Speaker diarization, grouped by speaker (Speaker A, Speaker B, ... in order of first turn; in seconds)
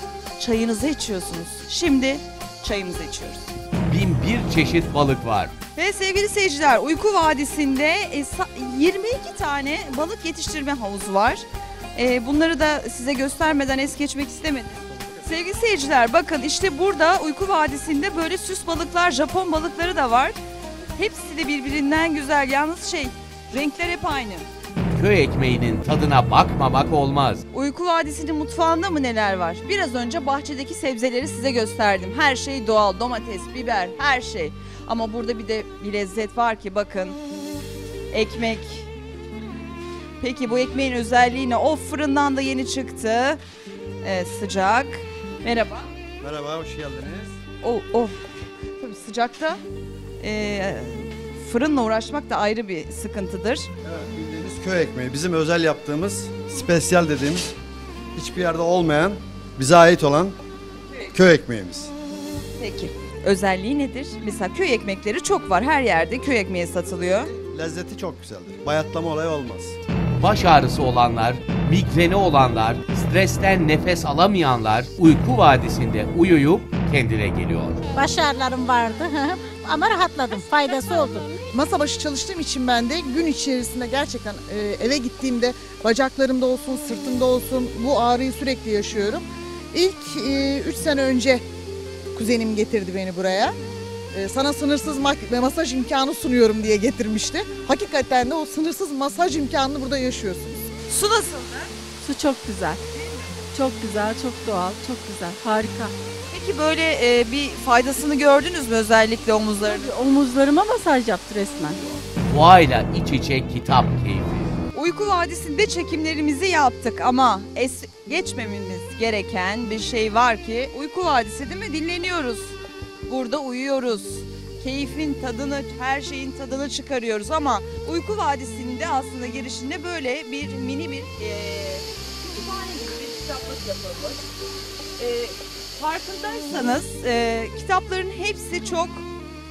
Speaker A: 0.4-3.4, 5.8-20.4, 21.0-24.5, 27.5-37.2, 38.1-38.9, 40.2-43.4, 44.0-45.9, 47.6-48.2, 48.8-49.6, 50.2-53.7, 62.6-67.3, 100.8-101.7, 106.3-109.9, 114.7-122.6, 123.1-134.2, 135.0-139.1
Speaker B: 3.9-5.5, 24.9-27.4, 70.2-77.8, 112.3-114.5
Speaker C: 46.2-47.4, 53.8-57.5, 58.1-60.4, 61.1-61.9, 67.3-69.8
Speaker D: 77.9-81.3
Speaker E: 81.5-91.4, 92.1-93.5, 94.1-100.7
Speaker F: 102.0-102.8, 103.5-105.9, 109.6-112.0